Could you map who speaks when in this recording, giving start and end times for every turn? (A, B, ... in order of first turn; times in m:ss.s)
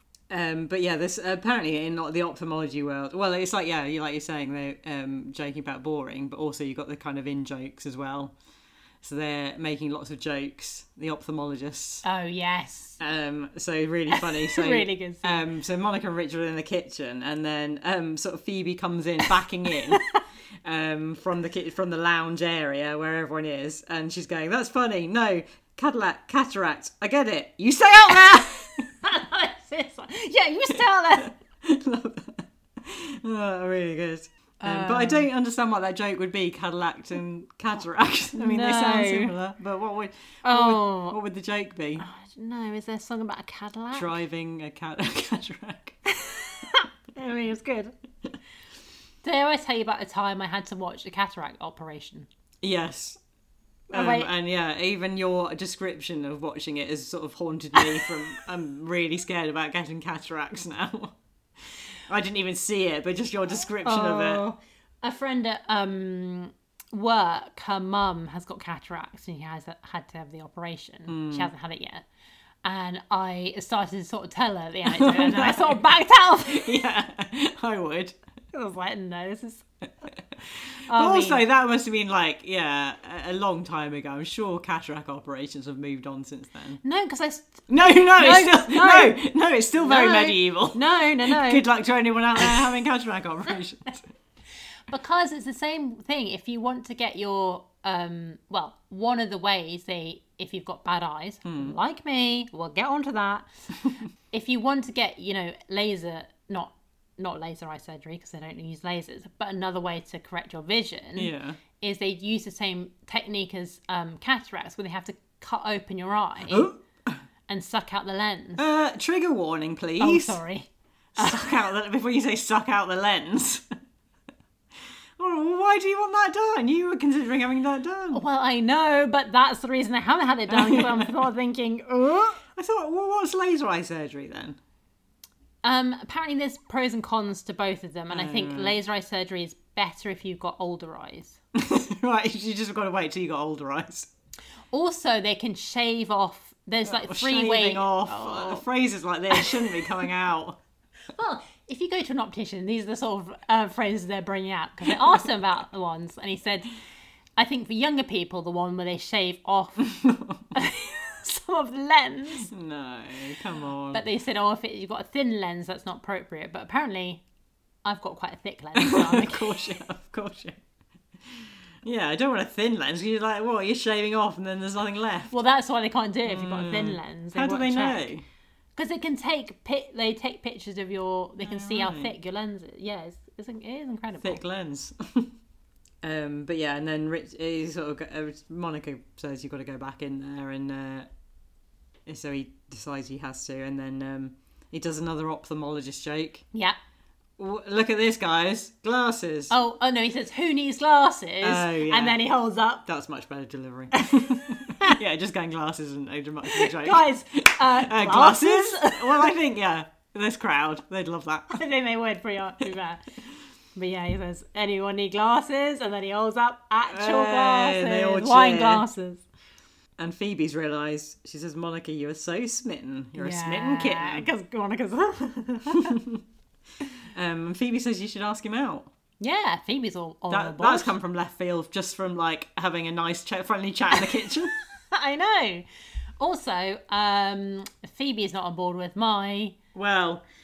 0:00.3-0:08.3 A
0:09.0-0:12.0 A
0:12.0-0:13.0 B
0:13.0-0:20.0 A
0:14.1-0:15.4 B
0:19.9-0:20.2 B
0:20.6-0:28.9 A
0:29.0-0:31.4 B
0:30.8-0:42.0 A
0:34.6-0:35.3 B
0:38.4-0:39.3 B
0:40.4-0:41.2 B
0:42.0-0:44.2 B
0:43.9-0:46.0 A
0:46.1-0:47.9 B
0:49.2-0:52.3 B
0:52.6-0:53.2 A
0:53.9-0:54.3 B
0:53.9-1:04.4 A
1:03.8-1:12.0 B
1:11.1-1:11.5 A
1:12.6-1:16.7 B
1:14.8-1:15.8 A
1:16.4-1:18.2 A
1:18.5-1:19.6 B
1:20.9-1:21.4 B
1:20.9-1:26.8 A
1:26.8-1:29.2 B
1:27.7-1:34.1 A
1:29.7-1:31.6 B
1:34.9-1:43.5 B
1:41.4-1:41.8 A
1:44.3-1:56.7 B
1:51.2-1:51.6 A
1:56.5-1:57.2 A
1:57.5-1:58.6 B
1:58.6-2:00.4 A
2:00.0-2:01.6 B
2:01.2-2:03.6 A
2:05.2-2:08.2 A
2:08.1-2:12.4 B
2:10.5-2:11.1 A
2:12.5-2:14.6 A
2:15.6-2:21.4 B
2:18.1-2:18.8 A
2:21.5-2:24.1 A
2:24.7-2:28.6 B
2:26.8-2:30.6 A
2:29.3-2:29.9 B
2:31.1-2:36.7 B
2:37.4-2:40.0 B
2:39.9-2:40.4 A
2:40.5-2:42.5 B
2:42.5-2:44.0 A
2:43.9-2:47.2 B
2:47.8-2:49.7 B
2:48.8-2:50.6 A
2:51.2-2:55.3 A
2:55.3-2:58.1 B
2:56.2-2:58.2 A
2:58.8-3:04.4 B
3:01.4-3:02.1 A
3:04.2-3:05.3 A
3:06.0-3:11.1 A
3:12.0-3:16.4 A
3:17.4-3:19.5 A
3:19.5-3:22.8 B
3:21.4-3:22.2 A
3:22.8-3:31.6 A
3:23.9-3:25.0 B
3:26.5-3:29.3 B
3:31.5-3:33.1 B
3:33.8-3:39.2 B
3:36.9-3:38.8 A
3:40.0-3:44.3 A
3:43.2-3:46.0 B
3:45.7-3:46.2 A
3:47.1-3:48.9 A
3:49.2-3:50.9 B
3:50.3-3:54.5 A
3:54.9-3:55.6 B
3:56.2-3:59.6 B
3:59.7-4:00.2 A